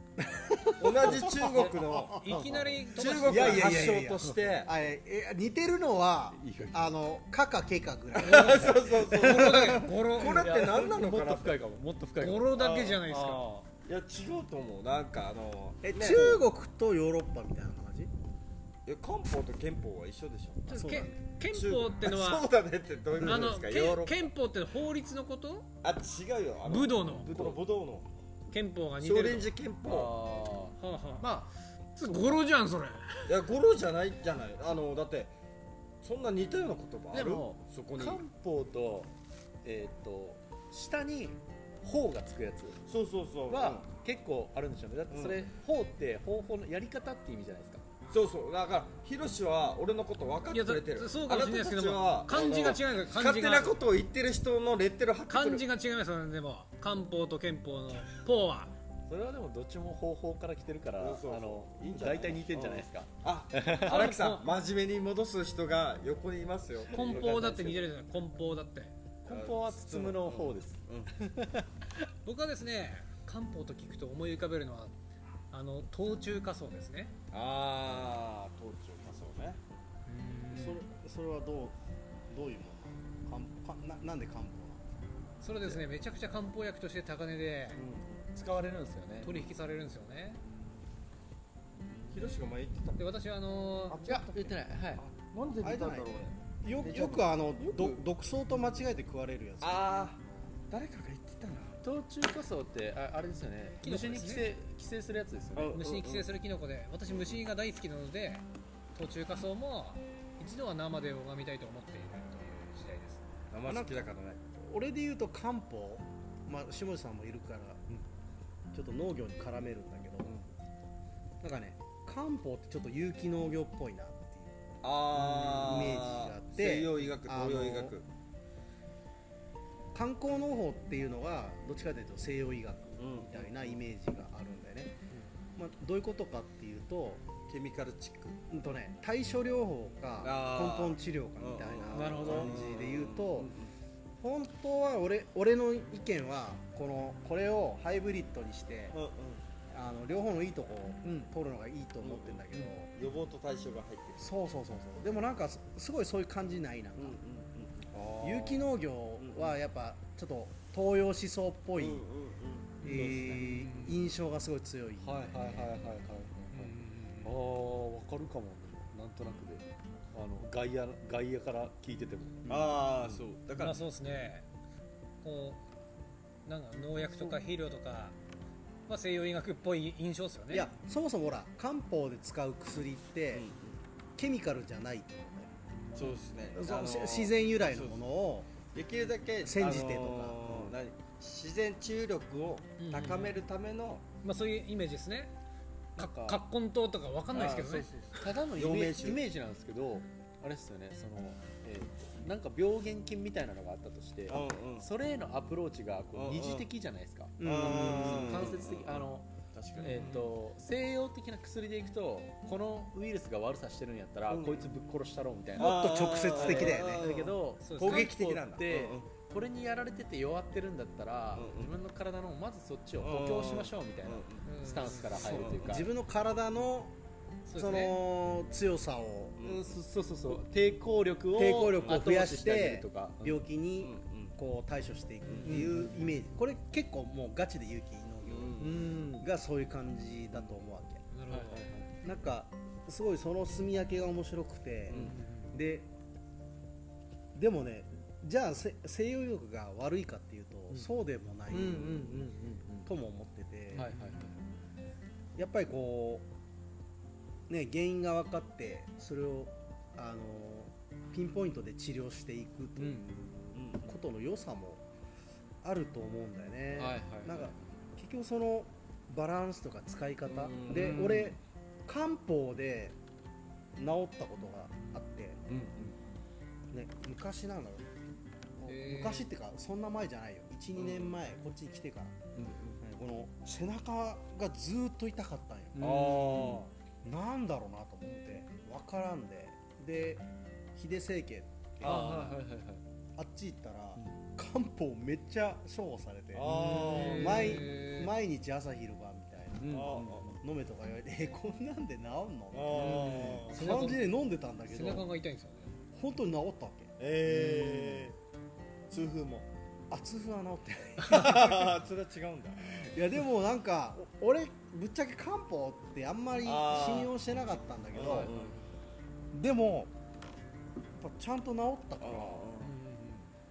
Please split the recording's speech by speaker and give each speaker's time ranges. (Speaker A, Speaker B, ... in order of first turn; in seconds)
Speaker A: 0.3-9.7, 15.8-18.1, 20.7-21.2, 80.5-81.8, 82.3-84.8, 95.6-100.0, 113.6-114.1, 114.6-118.0, 118.7-120.3, 121.4-124.5, 125.1-127.9, 129.9-134.9, 135.6-137.2, 138.5-143.5, 144.2-149.0, 149.7-152.9, 154.2-157.2, 158.2-162.0, 162.8-165.9, 172.5-172.8, 180.5-183.5, 184.2-185.5, 186.5-188.5, 189.4-190.8, 207.4-208.5, 215.6-217.1, 225.2-226.9, 227.6-229.4, 231.3-241.0, 242.0-245.9, 247.3-252.3, 252.8-253.9, 255.4-256.2, 257.5-264.8, 265.6-272.9, 273.8-275.4, 276.7-277.9, 278.6-282.2, 282.8-286.5, 287.0-292.4, 293.2-296.5, 297.1-305.1, 305.9-308.1, 309.9-311.8, 312.8-318.3, 319.3-319.9, 320.9-322.5
Speaker B: 0.8-2.2, 2.9-4.7, 8.1-11.6, 12.6-16.4, 18.9-20.9, 21.5-24.3, 25.8-28.1, 29.0-30.2, 33.3-35.3, 36.0-38.2, 42.9-43.9, 45.1-45.4, 48.1-55.6, 61.0-67.2, 69.3-71.1, 77.3-79.6, 87.8-88.3, 92.1-93.0, 93.9-98.0, 99.6-101.8, 105.5-106.3, 113.5-114.6, 120.2-120.5, 124.8-128.1, 133.0-133.7, 137.5-138.4, 140.2-143.7, 148.9-149.4, 152.0-154.3, 157.0-159.6, 161.8-162.8, 172.5-173.9, 183.3-183.8, 185.9-188.0, 188.7-194.0, 197.3-199.2, 204.3-204.9, 206.1-206.7, 207.4-210.3, 214.3-214.7, 215.6-219.1, 221.3-221.7, 223.0-224.4, 225.2-225.7, 231.7-232.0, 233.8-234.4, 238.3-238.8, 244.9-245.1, 263.5-264.0, 270.3-271.1, 275.5-275.9, 280.8-281.2, 285.8-286.7, 296.3-297.2, 299.7-300.3, 302.5-303.6, 307.0-308.1, 308.9-309.5, 311.1-312.9, 316.4-317.1, 317.9-318.6, 322.0-322.7
Speaker C: 2.1-3.7, 8.2-10.4, 12.2-13.5, 20.7-22.5, 23.2-25.7, 26.6-27.3, 28.5-29.5, 30.8-31.3, 31.9-33.4, 50.5-53.9, 55.3-58.7, 63.8-64.5, 66.9-68.9, 72.2-74.9, 75.5-77.1, 80.1-80.8, 85.4-87.8, 89.2-90.4, 93.0-94.0, 103.8-104.5, 105.7-113.2, 141.9-142.4, 162.8-164.0, 166.5-167.3, 173.5-174.5, 175.2-175.6, 176.4-178.2, 178.9-180.7, 192.8-193.4, 194.2-195.3, 196.0-197.9, 217.6-218.1, 224.4-225.2, 227.5-227.9, 241.1-241.7, 245.1-245.5, 278.7-279.3, 296.6-298.1, 302.9-304.1, 304.6-305.7
Speaker D: 6.3-7.0, 10.2-12.6, 27.2-27.6, 29.8-31.5, 32.0-32.4, 37.1-39.1, 39.6-42.8, 43.5-47.8, 59.1-64.1, 66.9-67.9, 69.2-71.8, 88.3-89.4, 94.0-95.0, 101.8-105.8, 141.9-142.5, 151.0-151.3, 162.8-163.5, 165.0-172.5, 196.0-196.4, 198.1-225.9, 229.4-233.4, 235.4-236.0, 238.6-239.3, 241.3-241.9, 251.5-252.9, 253.7-254.4, 262.8-263.1, 266.7-267.8, 270.7-271.4, 275.5-275.9, 282.3-282.8, 285.7-286.6, 291.8-292.8, 293.9-294.2, 299.6-300.4, 302.7-303.4, 318.0-318.6, 322.9-323.2